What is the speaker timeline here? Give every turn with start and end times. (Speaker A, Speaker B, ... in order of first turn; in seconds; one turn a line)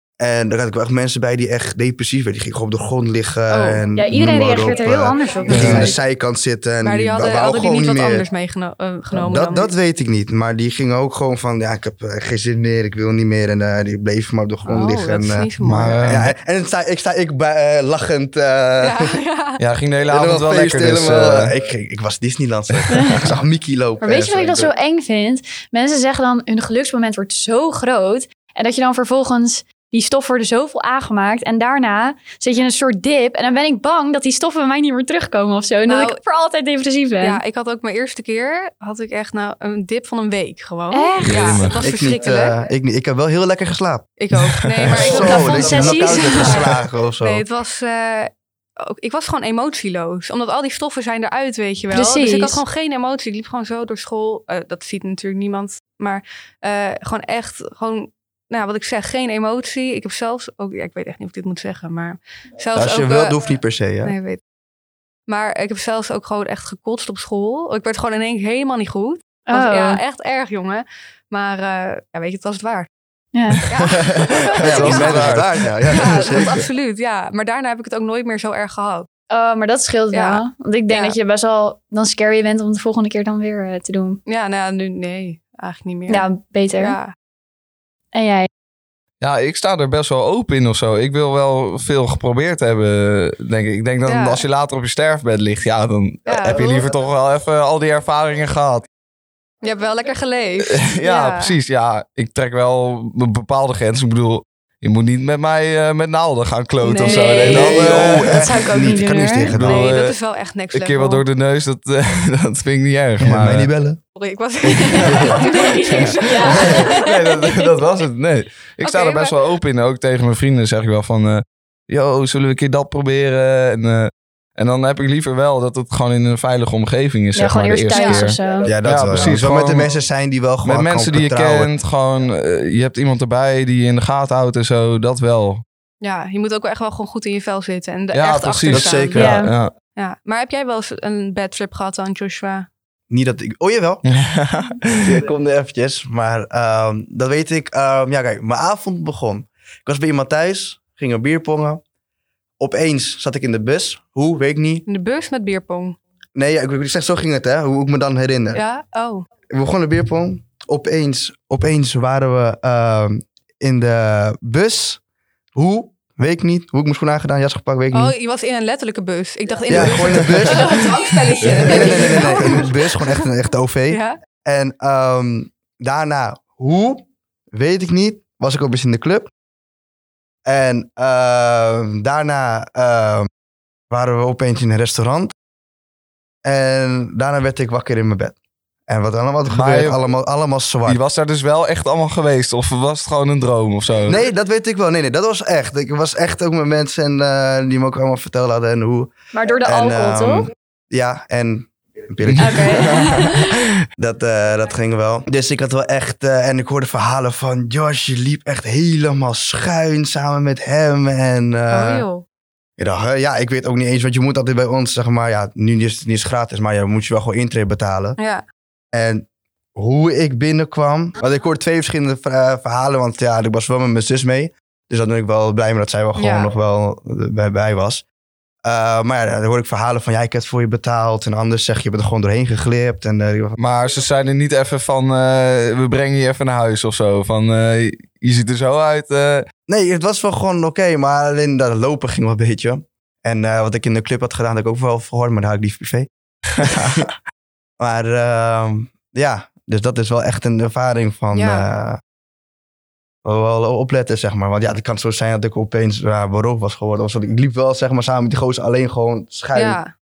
Speaker A: 0.2-8.2
Speaker B: 3.5-3.8
Speaker C: 3.9-6.0
Speaker D: 5.5-5.9
Speaker B: 6.8-9.7
Speaker A: 9.1-19.1
Speaker B: 14.7-16.0
Speaker D: 15.6-16.3
Speaker B: 18.8-19.6
Speaker D: 19.6-21.5
Speaker A: 20.1-24.7
Speaker D: 22.7-23.2
Speaker C: 22.9-23.2
Speaker C: 24.0-37.4
Speaker B: 35.9-36.2
Speaker B: 37.2-42.6
Speaker C: 40.9-41.7
Speaker D: 41.2-41.8
Speaker A: 41.8-44.1
Speaker B: 44.2-46.6
Speaker D: 44.8-45.5
Speaker A: 44.9-47.4
Speaker C: 45.0-46.6
Speaker B: 47.2-63.4
Speaker C: 51.9-52.6
Speaker A: 62.7-64.1
Speaker B: 64.0-64.4
Speaker B: 65.3-72.9
Speaker C: 69.5-70.0
Speaker C: 73.3-73.6
Speaker B: 73.7-75.2
Speaker D: 73.9-76.4
Speaker A: 74.6-76.5
Speaker B: 75.9-79.1
Speaker C: 79.3-84.2
Speaker B: 80.1-81.2
Speaker B: 84.2-86.2
Speaker C: 86.1-87.0
Speaker B: 86.8-87.1
Speaker C: 88.1-88.5
Speaker D: 89.2-98.8
Speaker B: 94.0-94.4
Speaker B: 96.2-96.9
Speaker B: 99.6-101.5
Speaker D: 100.7-108.7
Speaker B: 106.8-107.9
Speaker C: 107.0-109.5
Speaker A: 107.4-109.9
Speaker D: 109.5-110.2
Speaker B: 109.6-111.2
Speaker D: 110.7-113.7
Speaker A: 113.2-114.0
Speaker B: 114.1-117.1
Speaker D: 114.8-129.9
Speaker C: 115.1-117.6
Speaker B: 118.8-119.3
Speaker C: 127.3-128.7
Speaker B: 127.9-128.3
Speaker A: 128.6-131.7
Speaker D: 130.6-135.6
Speaker B: 136.0-139.2
Speaker D: 138.1-139.7
Speaker A: 138.7-139.3
Speaker C: 139.2-139.5
Speaker B: 139.9-142.7
Speaker A: 143.1-144.0
Speaker D: 144.1-145.2
Speaker A: 145.0-151.8
Speaker A: 152.6-154.8
Speaker B: 154.9-156.0
Speaker A: 156.3-158.6
Speaker B: 158.5-159.2
Speaker A: 159.5-165.0
Speaker A: 165.5-168.1
Speaker B: 167.9-173.2
Speaker A: 169.7-170.9
Speaker D: 171.4-171.8
Speaker A: 171.5-179.3
Speaker B: 173.9-174.2
Speaker A: 180.4-183.3
Speaker A: 183.9-185.3
Speaker A: 186.4-188.3
Speaker A: 188.9-191.0
Speaker D: 189.5-190.0
Speaker D: 190.8-194.2
Speaker A: 194.1-199.1
Speaker C: 199.3-200.5
Speaker A: 199.6-203.3
Speaker D: 202.2-203.7
Speaker C: 202.4-203.5
Speaker A: 203.9-212.1
Speaker B: 211.7-212.2
Speaker A: 212.8-218.2
Speaker B: 218.2-218.4
Speaker A: 218.9-228.0
Speaker B: 226.2-226.5
Speaker A: 228.6-233.6
Speaker D: 233.6-239.4
Speaker A: 239.7-247.1
Speaker D: 246.6-247.1
Speaker A: 247.8-252.0
Speaker B: 251.3-251.6
Speaker A: 253.2-259.8
Speaker B: 259.5-259.9